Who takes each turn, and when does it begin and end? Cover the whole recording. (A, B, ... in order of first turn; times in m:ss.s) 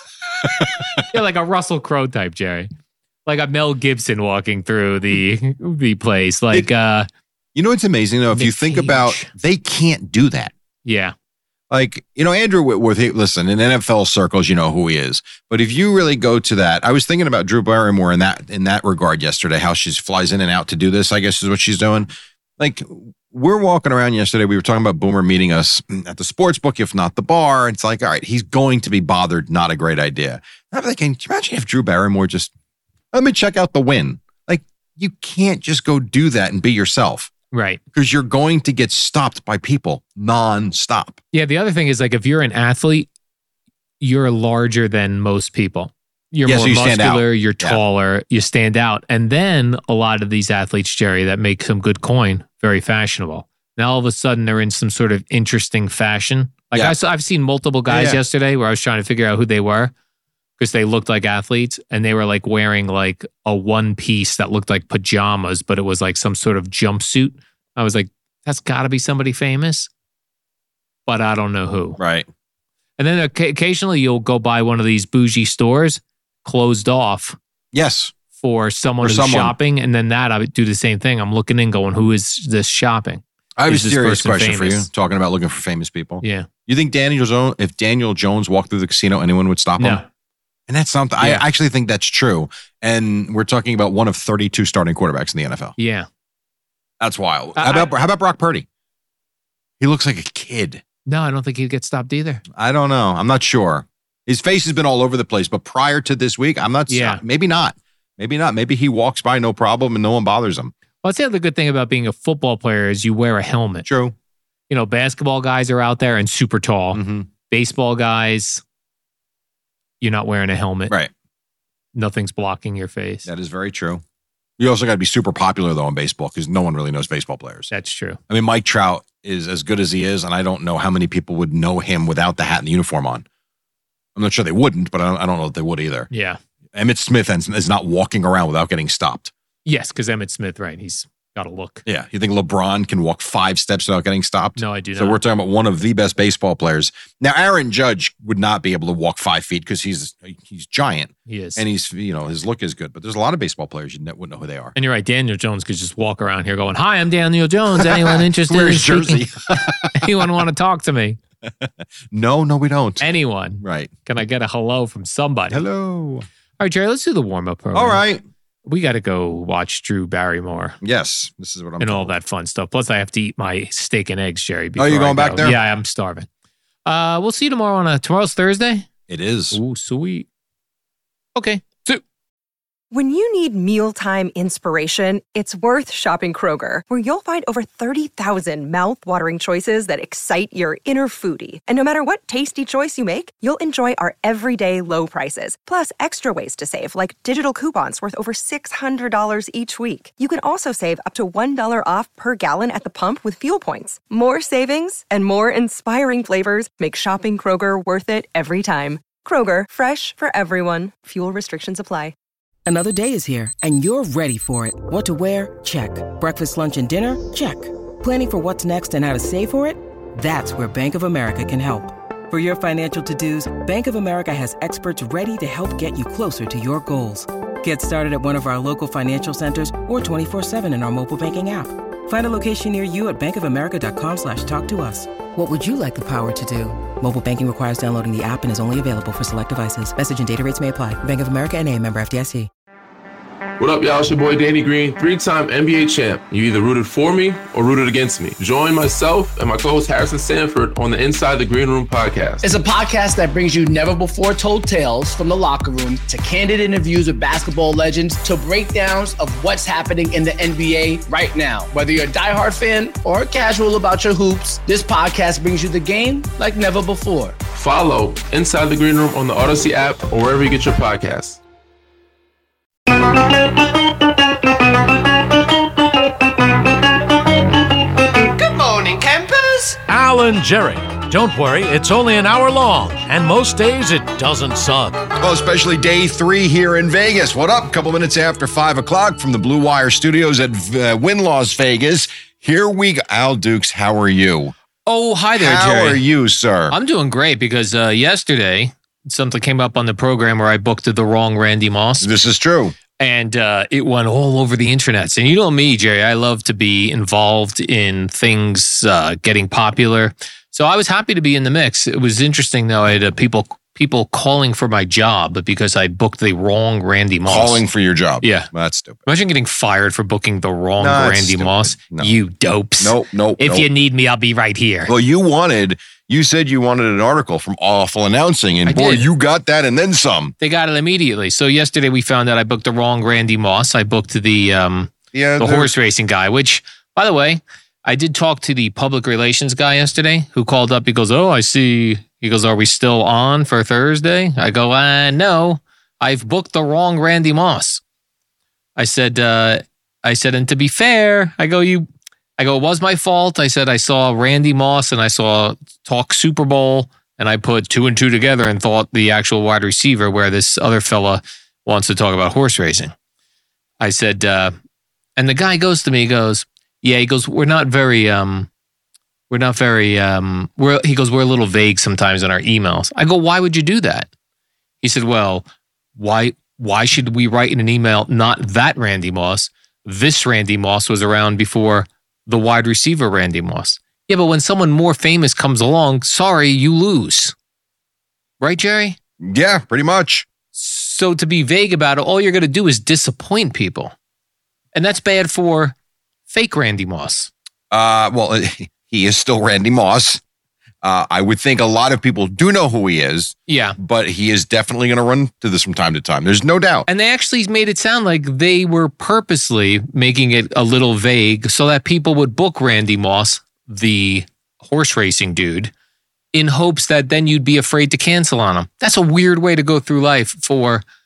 0:00.4-0:01.0 A
0:01.1-0:02.7 B
0:03.2-0:07.1 B
0:07.5-0:10.5 A
0:08.3-0:09.3 B
0:10.8-0:11.1 B
0:11.7-0:32.5 A
0:33.1-0:37.3 A
0:37.5-0:37.8 B
0:37.9-0:41.2 A
0:41.3-0:43.1 B
0:44.0-0:59.9 B
0:46.4-0:47.8 A
0:57.9-0:58.2 A
1:00.6-1:09.9 B
1:11.1-1:12.0 B
1:12.0-1:12.3 A
1:13.0-1:17.4 B
1:17.7-1:18.1 A
1:18.4-1:24.9 B
1:19.0-1:19.6 A
1:23.6-1:30.0 A
1:26.2-1:26.5 B
1:29.8-1:30.0 B
1:30.7-1:35.7 A
1:31.2-1:31.5 B
1:35.8-1:36.1 B
1:37.0-1:38.6 A
1:37.6-1:37.9 B
1:39.8-1:40.8 A
1:41.0-1:42.4 B
1:42.5-1:50.7 A
1:46.9-1:47.2 B
1:51.0-1:53.8 B
1:53.8-1:54.1 A
1:54.7-1:58.6 B
1:56.9-1:57.3 A
2:00.0-2:00.9 B
2:01.9-2:03.3 B
2:03.2-2:04.0 A
2:04.6-2:07.7 A
2:07.7-2:08.2 B
2:08.3-2:13.2 A
2:14.2-2:16.1 A
2:16.1-2:16.4 B
2:16.7-2:19.3 A
2:19.6-2:21.8 B
2:21.8-2:34.8 A
2:24.6-2:25.2 B
2:31.2-2:31.6 B
2:34.8-2:39.3 B
2:37.7-2:40.2 A
2:39.9-2:41.2 B
2:41.4-2:43.0 A
2:43.0-2:45.6 B
2:43.6-2:43.9 A
2:45.5-2:46.3 A
2:46.6-2:48.0 B
2:47.7-2:48.2 A
2:48.6-2:50.8 B
2:50.8-2:52.2 A
2:51.8-2:56.3 B
2:54.8-2:55.6 A
2:56.8-2:58.8 B
2:59.1-2:59.6 A
2:59.5-3:00.3 B
3:01.3-3:02.0 B
3:02.9-3:32.1 C
3:32.6-4:02.5 D
4:03.6-4:12.5 E
4:12.4-4:27.4 F
4:27.5-4:31.4 E
4:39.2-4:39.6 A
4:39.9-4:45.0 G
4:45.2-4:54.5 A
4:54.8-4:56.0 B
4:55.3-4:56.8 A
4:56.7-5:02.1 B
5:02.0-5:02.8 A
5:03.0-5:17.6 B
5:17.2-5:19.0 A
5:18.2-5:18.5 B
5:19.0-5:24.9 B
5:20.8-5:22.2 A
5:22.8-5:23.7 A
5:24.9-5:30.3 A
5:28.6-5:29.1 B
5:30.4-5:47.8 B
5:35.1-5:35.7 A
5:48.8-6:02.9 B
6:03.8-6:04.5 B
6:05.2-6:08.5 B
6:09.3-6:14.1 B
6:14.8-6:15.4 B
6:16.0-6:27.3 B
6:28.4-6:29.0 B
6:29.2-6:30.3 A
6:30.5-6:33.9 B
6:34.7-6:35.7 B
6:36.3-6:37.3 B
6:37.7-6:40.2 A
6:40.8-6:46.9 A
6:43.5-6:43.8 B
6:46.9-6:55.7 B
6:56.3-7:00.8 B